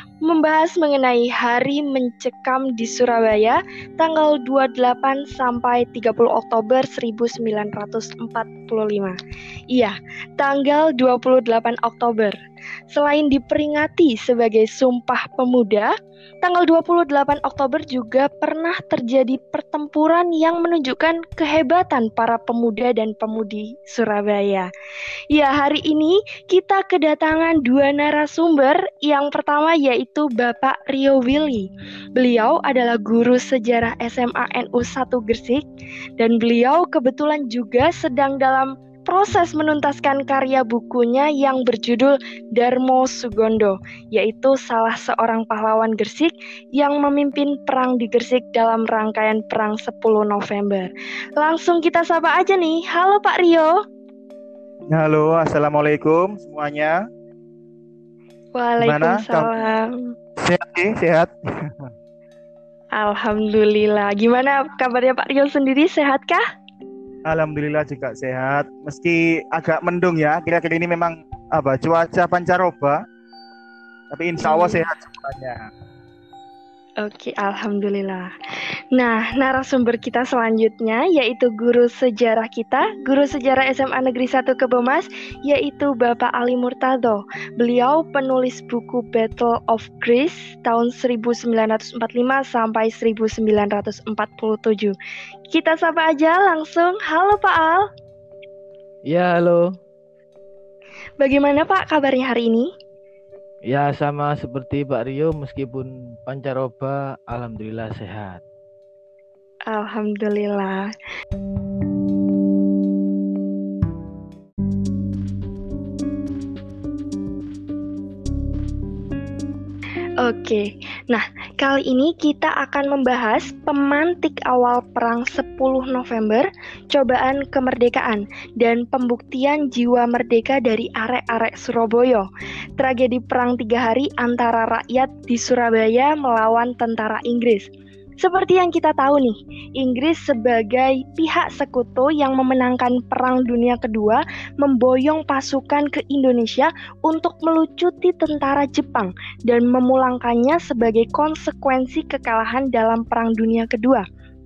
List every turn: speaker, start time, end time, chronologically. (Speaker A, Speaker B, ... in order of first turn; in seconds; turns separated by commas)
Speaker A: 0.2-9.2, Speaker A: 9.7-12.4, Speaker A: 12.9-24.7, Speaker A: 25.3-35.6, Speaker A: 36.2-53.8, Speaker B: 54.9-57.0, Speaker A: 58.5-60.1, Speaker B: 58.8-59.5, Speaker B: 60.4-61.9, Speaker A: 63.0-66.4, Speaker B: 67.3-73.0, Speaker B: 74.1-75.6, Speaker A: 74.4-74.8, Speaker A: 77.0-78.3, Speaker A: 78.9-95.0, Speaker A: 95.5-97.9, Speaker C: 99.1-99.8, Speaker A: 101.2-102.7, Speaker C: 103.7-108.4, Speaker A: 109.7-110.9, Speaker A: 120.2-132.3, Speaker A: 132.8-137.7, Speaker A: 138.2-154.0